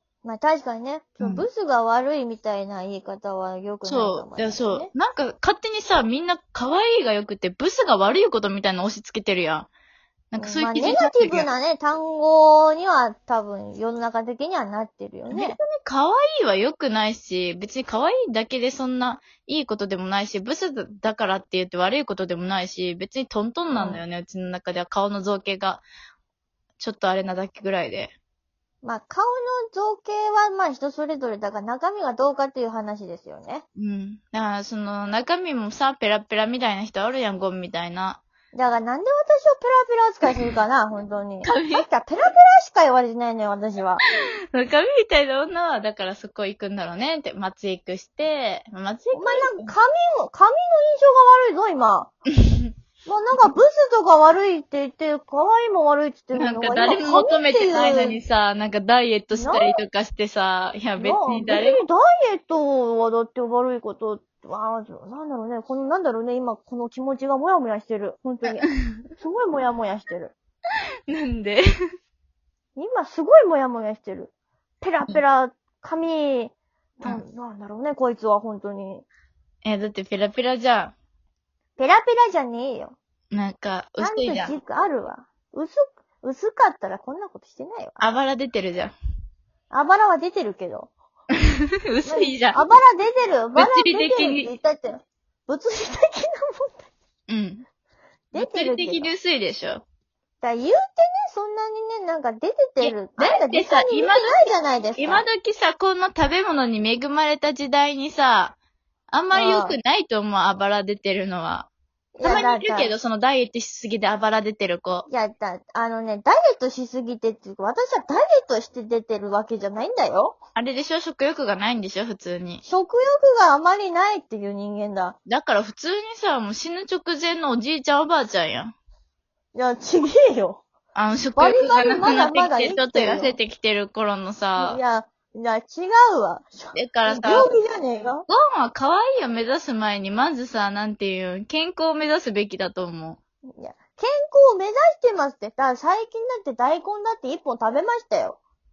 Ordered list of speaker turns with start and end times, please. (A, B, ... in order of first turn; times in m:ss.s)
0:00.2-0:04.9 A
0:01.2-0:01.5 B
0:03.8-0:09.7 B
0:10.3-0:11.5 B
0:10.4-0:15.6 A
0:15.3-0:25.8 B
0:23.7-0:24.0 A
0:26.8-0:28.1 B
0:28.8-0:33.6 A
0:33.8-0:38.2 B
0:38.5-0:44.0 A
0:41.4-0:41.9 B
0:44.5-0:49.7 B
0:49.1-0:52.1 A
0:53.1-0:58.2 A
0:56.3-1:01.8 B
0:59.3-0:59.8 A
1:01.0-1:08.7 A
1:09.2-1:10.4 A
1:11.1-1:11.6 B
1:12.8-1:19.1 A
1:19.6-1:21.0 B
1:21.8-1:23.0 A
1:23.3-1:24.6 B
1:24.0-1:28.0 A
1:28.0-1:29.0 B
1:29.7-1:30.9 A
1:31.9-1:32.6 B
1:32.0-1:36.9 A
1:33.6-1:34.5 B
1:37.3-1:37.7 B
1:38.3-1:39.1 A
1:38.3-1:39.8 B
1:40.4-1:45.2 A
1:42.8-1:48.6 B
1:49.1-1:51.7 B
1:49.3-1:49.8 A
1:52.2-1:52.9 A
1:52.2-1:55.1 B
1:55.1-2:00.4 A
2:00.6-2:02.6 B
2:02.6-2:05.2 A
2:05.3-2:08.7 B
2:09.5-2:10.6 A
2:11.0-2:14.8 B
2:11.4-2:13.4 A
2:14.6-2:18.2 A
2:16.7-2:17.5 B
2:18.3-2:23.2 B
2:23.6-2:28.4 A